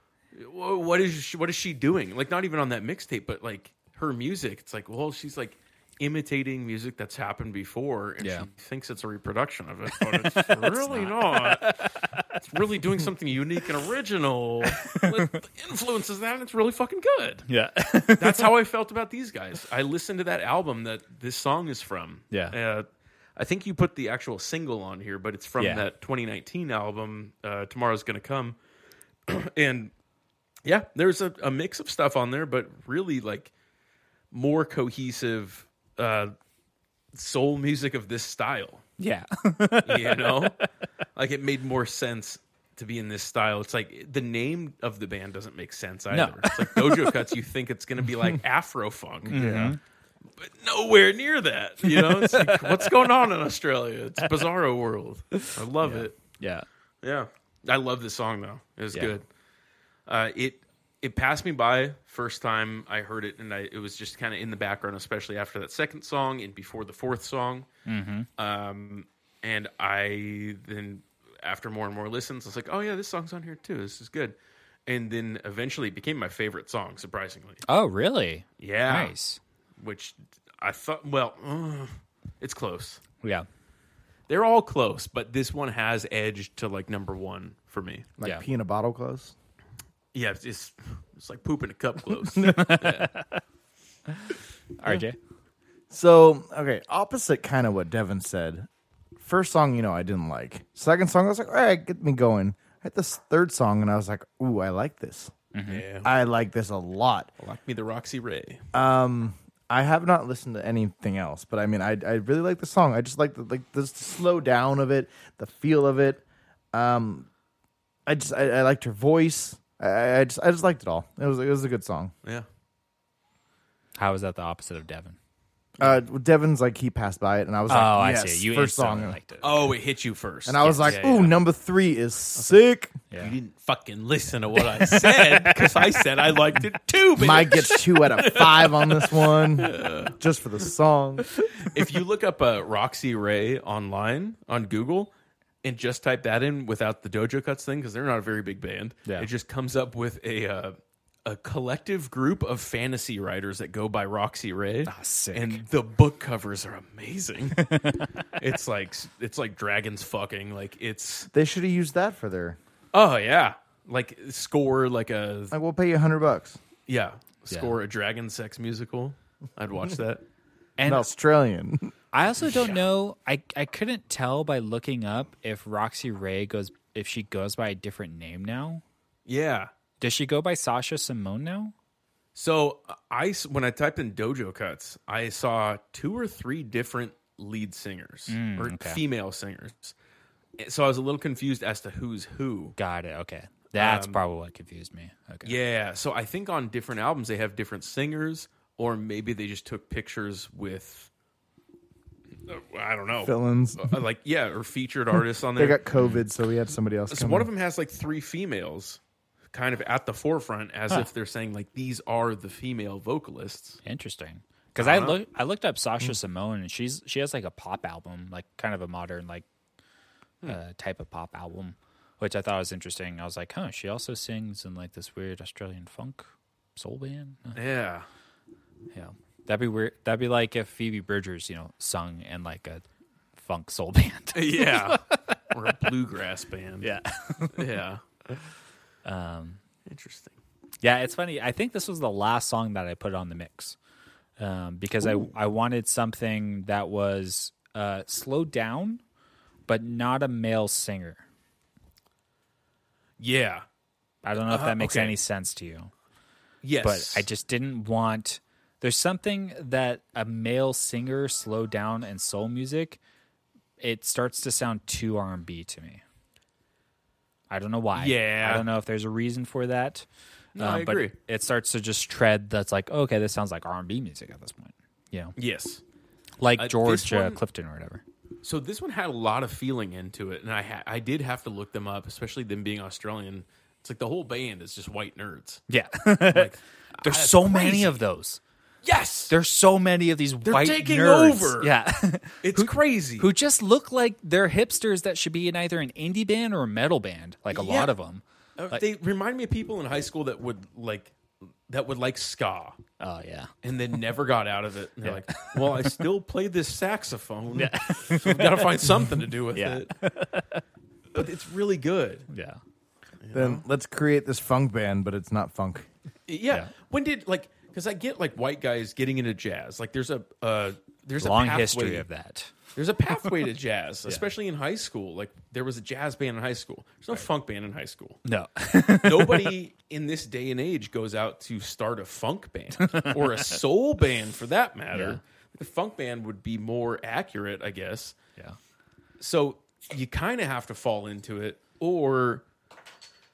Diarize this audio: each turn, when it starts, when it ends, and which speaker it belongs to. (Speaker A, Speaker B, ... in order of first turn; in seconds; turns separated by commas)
Speaker A: 0.3-11.8, Speaker B: 8.2-8.5, Speaker B: 9.9-12.6, Speaker A: 12.3-17.5, Speaker B: 14.7-15.4, Speaker B: 17.5-18.5, Speaker A: 18.2-28.6, Speaker B: 22.3-22.6, Speaker B: 25.6-25.9, Speaker A: 29.3-29.9, Speaker A: 30.6-33.5, Speaker A: 34.3-36.3, Speaker A: 37.1-38.8, Speaker B: 39.0-40.6, Speaker A: 39.8-40.6, Speaker A: 41.1-49.8, Speaker B: 46.1-47.2, Speaker B: 49.3-49.8, Speaker A: 50.4-56.1, Speaker B: 51.8-53.0, Speaker B: 55.3-56.6, Speaker A: 57.0-59.2, Speaker A: 60.1-67.7, Speaker B: 67.8-68.3, Speaker A: 68.4-74.3, Speaker A: 74.9-77.6, Speaker B: 77.7-79.4, Speaker A: 78.6-79.1, Speaker A: 79.8-83.0, Speaker B: 83.2-83.5, Speaker A: 84.3-88.1, Speaker C: 88.2-89.3, Speaker A: 90.1-93.1, Speaker B: 92.4-93.4, Speaker B: 94.1-95.2, Speaker C: 95.9-98.7, Speaker C: 99.2-105.3, Speaker B: 105.5-105.8, Speaker A: 105.7-106.1, Speaker C: 106.0-107.3, Speaker A: 107.4-108.6, Speaker C: 108.7-116.2, Speaker C: 116.7-117.3, Speaker C: 118.1-122.1, Speaker B: 124.0-125.2, Speaker C: 125.8-129.2, Speaker B: 127.7-129.7, Speaker A: 129.4-131.4, Speaker C: 130.4-132.9, Speaker B: 130.6-131.0, Speaker A: 133.2-140.2, Speaker B: 134.7-136.0, Speaker C: 137.2-141.3, Speaker A: 141.4-161.3, Speaker B: 154.8-155.6, Speaker B: 157.6-158.3, Speaker C: 161.3-162.6, Speaker A: 162.9-165.6, Speaker C: 165.5-166.6, Speaker A: 166.9-170.2, Speaker B: 167.5-167.7, Speaker B: 170.8-171.1, Speaker C: 170.8-171.9, Speaker B: 172.1-178.8, Speaker A: 172.4-172.8, Speaker A: 179.2-179.7, Speaker B: 180.0-181.7, Speaker A: 182.3-189.9, Speaker B: 188.3-189.0, Speaker A: 190.6-192.8, Speaker B: 192.8-195.6, Speaker A: 193.8-194.2, Speaker A: 195.4-201.1, Speaker A: 202.4-205.8, Speaker C: 203.2-204.0, Speaker C: 205.6-207.5, Speaker B: 205.9-206.2, Speaker A: 207.1-209.0, Speaker A: 209.5-213.8, Speaker B: 213.8-219.4, Speaker A: 214.8-215.2, Speaker B: 220.4-227.6, Speaker A: 227.6-228.1, Speaker B: 228.9-232.8, Speaker B: 233.4-235.4, Speaker A: 234.3-236.9, Speaker B: 236.8-237.7, Speaker A: 237.5-238.0, Speaker B: 239.0-239.6, Speaker A: 239.8-240.4, Speaker B: 240.8-243.8, Speaker B: 244.4-249.0, Speaker B: 249.7-251.2, Speaker A: 253.2-253.6, Speaker B: 254.2-255.9, Speaker A: 254.4-255.2, Speaker A: 256.6-257.3, Speaker B: 256.8-263.0, Speaker B: 263.8-266.0, Speaker B: 267.5-270.1, Speaker A: 267.9-268.6, Speaker A: 270.5-271.1, Speaker B: 270.6-275.3, Speaker A: 275.4-275.8, Speaker B: 276.4-278.0, Speaker A: 276.6-277.4, Speaker A: 278.4-285.6, Speaker B: 285.7-288.4, Speaker A: 286.3-288.0, Speaker A: 288.8-289.3, Speaker B: 289.3-298.8, Speaker A: 290.4-291.7, Speaker A: 292.4-293.3, Speaker A: 297.5-297.9, Speaker A: 298.6-301.1, Speaker A: 301.7-302.8, Speaker B: 303.0-303.5, Speaker A: 303.6-309.9, Speaker B: 305.0-306.0, Speaker B: 307.6-309.0, Speaker B: 309.5-310.6, Speaker A: 311.1-312.3, Speaker B: 312.3-312.6, Speaker A: 313.2-313.6, Speaker C: 313.3-315.9, Speaker A: 316.3-322.1, Speaker B: 321.2-322.5, Speaker A: 322.7-328.2, Speaker B: 328.2-329.6, Speaker A: 329.0-338.1, Speaker B: 332.8-333.6, Speaker B: 334.9-335.2, Speaker A: 339.2-342.4